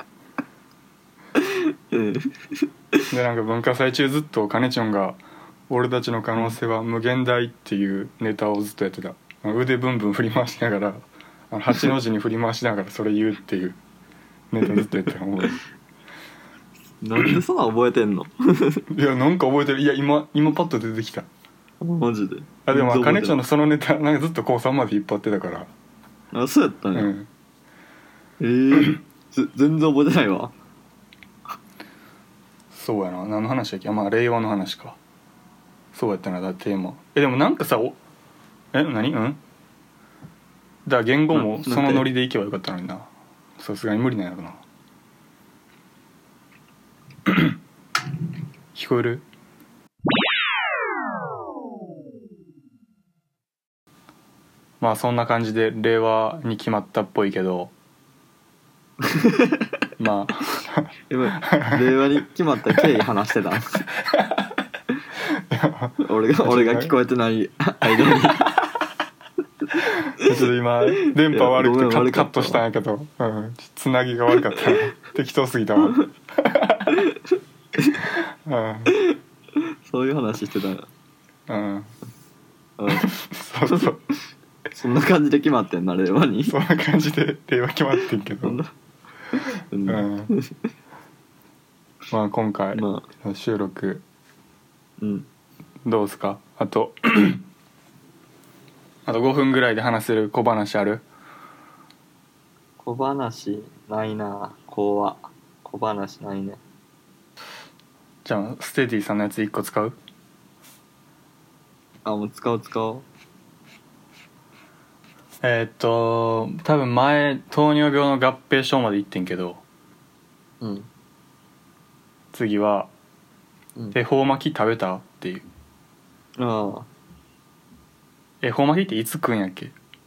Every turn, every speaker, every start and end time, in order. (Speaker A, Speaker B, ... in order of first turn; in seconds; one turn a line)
Speaker A: 1.4-3.0
Speaker B: 3.1-13.8
Speaker B: 14.5-15.6
Speaker A: 17.0-18.9
Speaker B: 18.9-21.3
Speaker A: 21.8-23.4
Speaker B: 22.6-25.7
Speaker A: 26.3-27.1
Speaker B: 26.9-27.3
Speaker A: 28.4-30.5
Speaker B: 32.7-35.0
Speaker B: 35.9-38.0
Speaker B: 38.7-39.4
Speaker B: 40.9-44.6
Speaker A: 41.3-42.1
Speaker B: 48.8-49.2
Speaker B: 54.8-57.7
Speaker A: 59.0-59.7
Speaker B: 60.0-60.9
Speaker A: 61.1-63.9
Speaker B: 61.5-61.8
Speaker B: 65.5-66.9
Speaker A: 66.0-68.5
Speaker B: 69.9-77.0
Speaker A: 71.3-72.6
Speaker B: 78.5-79.0
Speaker A: 79.8-80.9
Speaker B: 81.5-81.9
Speaker A: 82.8-83.1
Speaker B: 82.9-84.1
Speaker A: 84.7-86.5
Speaker B: 86.5-88.6
Speaker A: 88.4-88.7
Speaker A: 89.3-90.5
Speaker B: 89.9-90.3
Speaker B: 92.1-94.0
Speaker A: 92.7-93.0
Speaker A: 95.0-95.3
Speaker B: 95.8-97.4
Speaker B: 99.1-101.0
Speaker A: 102.8-106.6
Speaker B: 108.2-110.0
Speaker A: 112.0-113.0
Speaker B: 115.4-119.6
Speaker A: 120.6-120.9
Speaker B: 122.3-122.9
Speaker B: 123.9-125.5
Speaker A: 126.4-126.9
Speaker B: 128.4-129.8